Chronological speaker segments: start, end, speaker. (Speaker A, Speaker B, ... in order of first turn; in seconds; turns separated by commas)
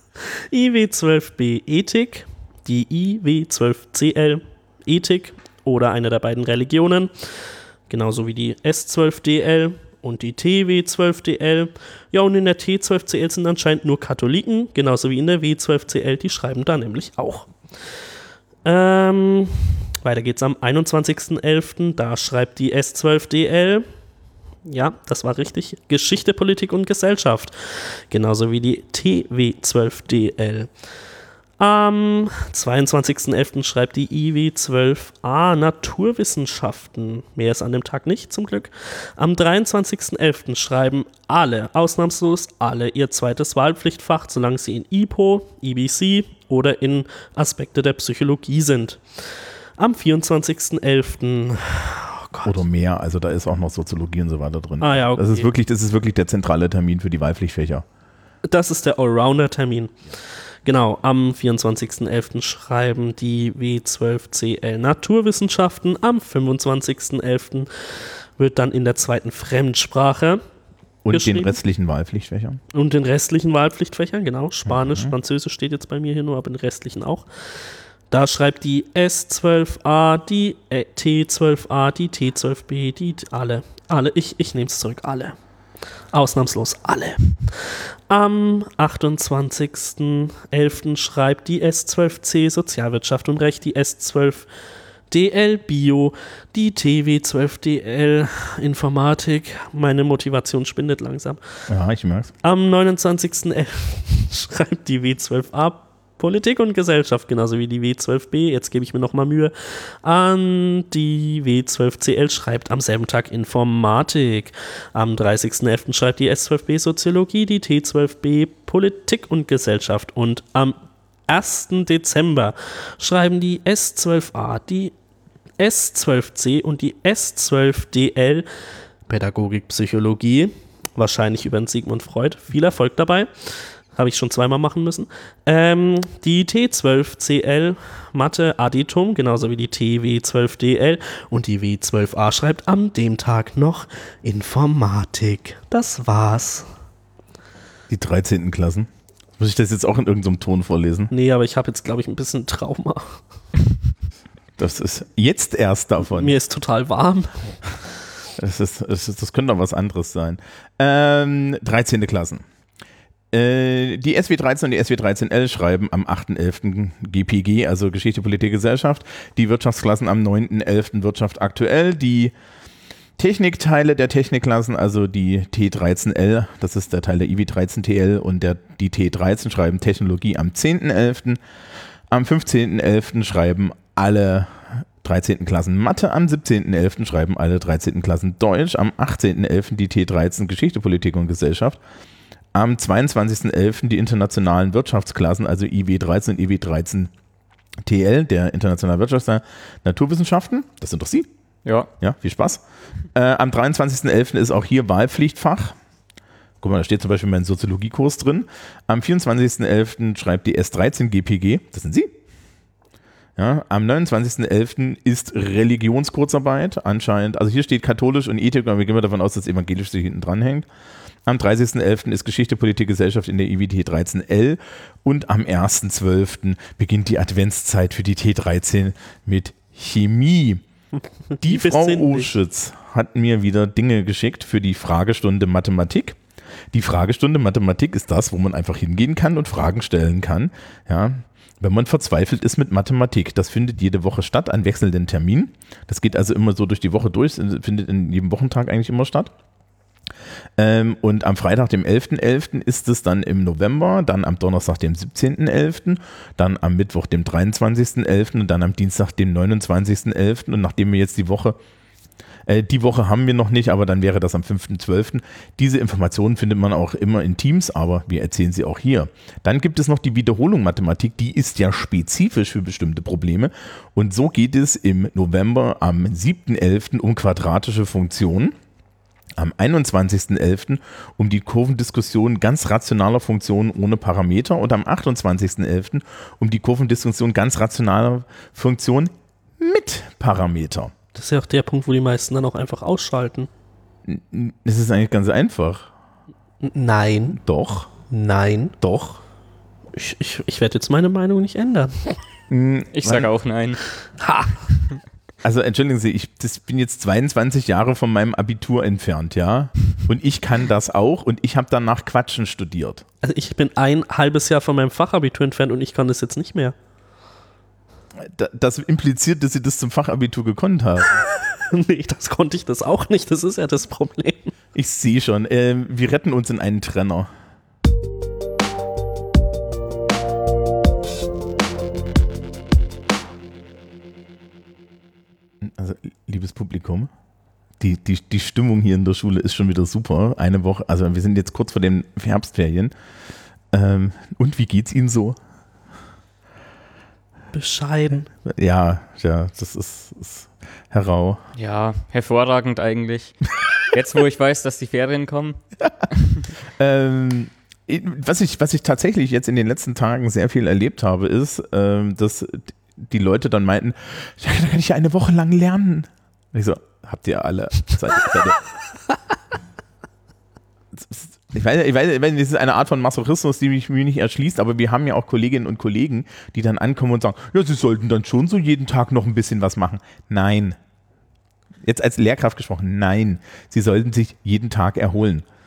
Speaker A: 0.2-18.0, Speaker A: 18.6-23.9, Speaker A: 24.6-30.7, Speaker A: 31.6-52.6, Speaker B: 52.4-57.9, Speaker A: 54.8-55.5, Speaker A: 58.5-60.0, Speaker A: 60.6-70.4, Speaker B: 71.0-72.6, Speaker A: 71.1-71.6, Speaker A: 72.7-77.3, Speaker B: 74.7-75.2, Speaker A: 78.1-85.3, Speaker A: 86.1-94.5, Speaker A: 95.1-101.4, Speaker B: 101.7-102.3, Speaker A: 102.4-120.8, Speaker A: 121.3-124.9, Speaker A: 125.6-128.5, Speaker A: 129.1-146.7, Speaker B: 147.9-151.1, Speaker A: 151.1-153.2, Speaker B: 154.6-156.3, Speaker A: 156.0-157.8, Speaker B: 158.4-162.4, Speaker B: 163.3-172.3, Speaker B: 173.2-181.4, Speaker B: 182.1-191.8, Speaker B: 192.6-197.1, Speaker B: 197.8-201.3, Speaker C: 201.7-201.9, Speaker B: 202.0-202.6, Speaker B: 203.1-205.8, Speaker B: 206.6-212.1, Speaker B: 213.4-220.7, Speaker B: 221.3-230.6, Speaker A: 231.3-232.3, Speaker B: 231.4-236.2, Speaker B: 236.7-249.3, Speaker B: 250.6-261.6, Speaker B: 262.5-278.6, Speaker B: 279.4-290.9, Speaker A: 291.1-293.5, Speaker B: 294.1-295.9, Speaker A: 296.6-297.4, Speaker B: 297.4-297.9, Speaker A: 298.1-298.8, Speaker B: 298.8-299.2, Speaker A: 299.9-302.2, Speaker B: 302.5-303.3, Speaker C: 302.9-303.8, Speaker A: 304.2-304.6, Speaker B: 305.4-313.0, Speaker A: 313.2-316.8, Speaker B: 318.2-321.2, Speaker A: 321.2-324.5, Speaker B: 324.8-327.3, Speaker B: 335.6-337.1, Speaker B: 337.8-342.9, Speaker B: 343.7-345.4, Speaker A: 347.5-348.3, Speaker B: 348.4-351.4, Speaker C: 351.6-355.6, Speaker B: 356.7-368.7, Speaker B: 370.9-380.8, Speaker B: 381.9-385.4